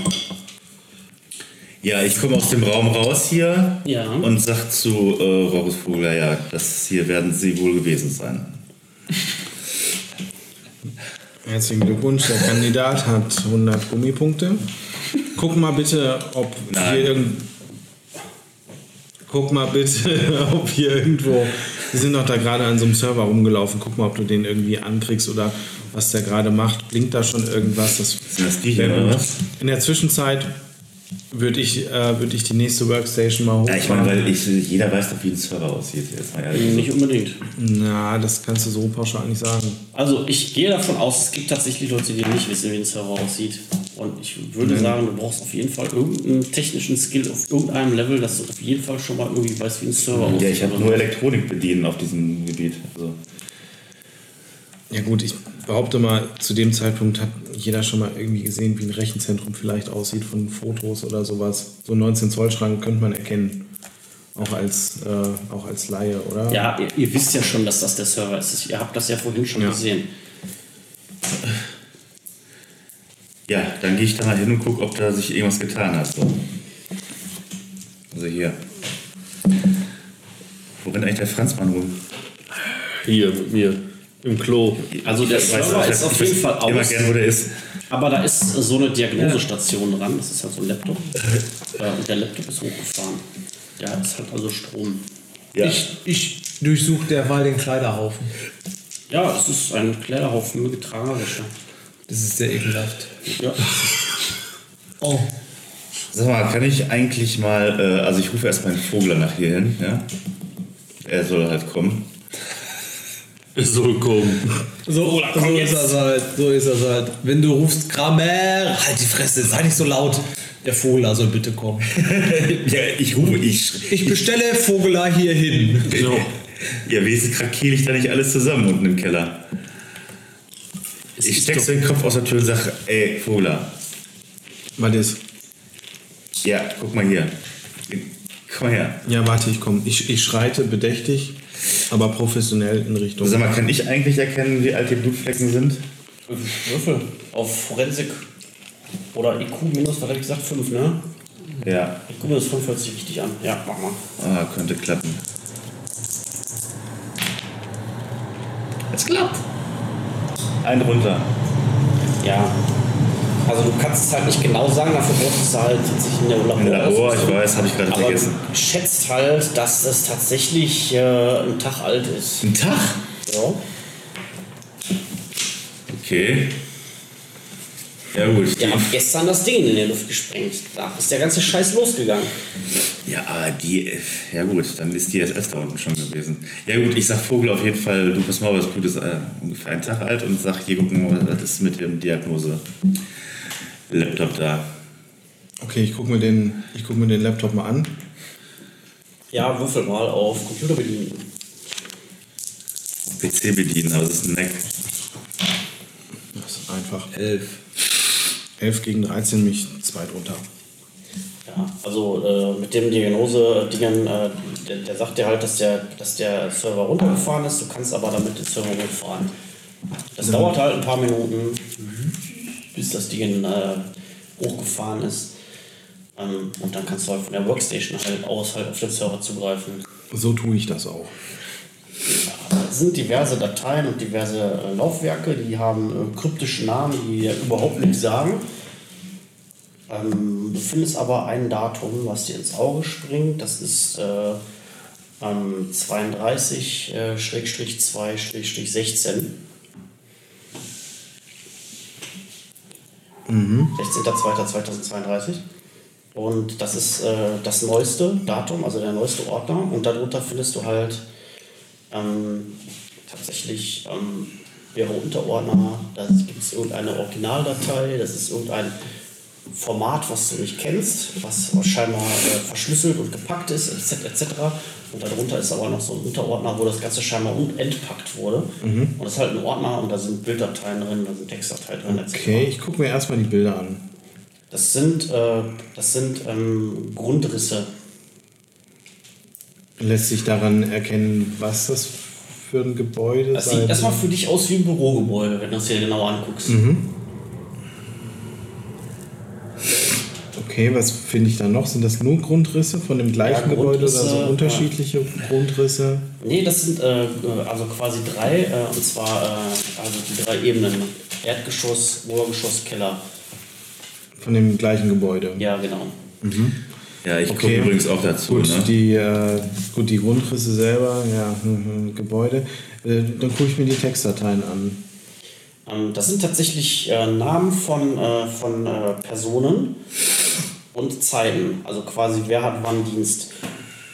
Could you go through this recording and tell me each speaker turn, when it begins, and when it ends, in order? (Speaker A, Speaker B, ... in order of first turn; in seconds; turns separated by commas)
Speaker A: 1.8-8.6, Speaker B: 3.9-4.3, Speaker C: 11.4-14.6, Speaker C: 15.3-17.5, Speaker A: 16.7-17.1, Speaker C: 19.3-30.5, Speaker A: 28.3-29.4, Speaker C: 31.3-34.2, Speaker A: 33.7-36.9, Speaker B: 36.5-37.4, Speaker C: 37.5-39.8, Speaker B: 39.9-51.0, Speaker C: 44.6-45.0, Speaker A: 50.1-53.2, Speaker C: 54.9-63.6, Speaker C: 64.3-66.7, Speaker B: 66.5-70.1, Speaker A: 73.5-76.4, Speaker A: 78.1-78.6, Speaker A: 80.8-82.0, Speaker D: 83.0-84.9, Speaker A: 84.9-87.5, Speaker B: 85.0-87.1, Speaker B: 87.9-91.2, Speaker E: 89.2-89.4, Speaker B: 91.8-93.2, Speaker B: 93.8-95.0, Speaker A: 95.5-95.8, Speaker E: 95.6-98.3, Speaker B: 99.1-101.5, Speaker E: 102.1-103.1, Speaker B: 103.4-103.6, Speaker E: 105.0-105.3, Speaker A: 106.1-110.1, Speaker A: 111.0-112.1, Speaker D: 113.5-114.5, Speaker E: 114.9-121.9, Speaker B: 115.3-115.9, Speaker A: 122.0-124.2, Speaker E: 123.9-126.0, Speaker D: 125.9-126.3, Speaker A: 125.9-129.4, Speaker B: 131.2-131.7, Speaker A: 131.2-133.7, Speaker C: 134.8-135.2, Speaker A: 136.4-137.3, Speaker A: 137.9-139.0, Speaker C: 139.1-141.4, Speaker C: 141.9-143.5, Speaker A: 143.2-145.8, Speaker B: 146.3-148.3, Speaker B: 149.1-151.0, Speaker A: 151.6-152.0, Speaker B: 152.1-154.0, Speaker A: 154.2-155.2, Speaker A: 158.9-159.4, Speaker A: 160.6-161.3, Speaker B: 162.2-162.6, Speaker B: 163.4-172.5, Speaker A: 166.6-168.4, Speaker A: 172.4-173.0, Speaker B: 173.2-173.6, Speaker A: 175.9-176.6, Speaker A: 178.1-179.0, Speaker B: 178.6-182.4, Speaker A: 183.1-192.6, Speaker A: 193.9-194.7, Speaker C: 195.6-197.9, Speaker B: 199.3-201.3, Speaker A: 203.2-204.7, Speaker C: 206.3-207.1, Speaker E: 207.1-207.5, Speaker C: 208.6-210.4, Speaker B: 211.5-219.3, Speaker B: 220.2-222.0, Speaker C: 220.2-220.6, Speaker B: 222.7-223.9, Speaker B: 224.4-225.3, Speaker B: 226.2-229.8, Speaker C: 230.1-231.1, Speaker B: 232.1-238.4, Speaker B: 239.9-244.4, Speaker B: 245.2-249.4, Speaker C: 253.3-253.7, Speaker B: 253.8-255.4, Speaker B: 256.1-261.1, Speaker B: 261.9-268.8, Speaker B: 269.5-282.5, Speaker C: 278.6-278.9, Speaker C: 281.9-283.8, Speaker B: 284.5-287.7, Speaker C: 289.8-294.0, Speaker B: 293.3-296.6, Speaker C: 296.5-296.9, Speaker C: 300.4-306.1, Speaker B: 303.2-304.7, Speaker B: 306.2-313.0, Speaker C: 314.2-315.4, Speaker B: 315.4-315.9, Speaker C: 316.2-316.6, Speaker A: 317.0-318.7, Speaker C: 317.3-324.8, Speaker B: 325.7-329.8, Speaker B: 330.7-333.3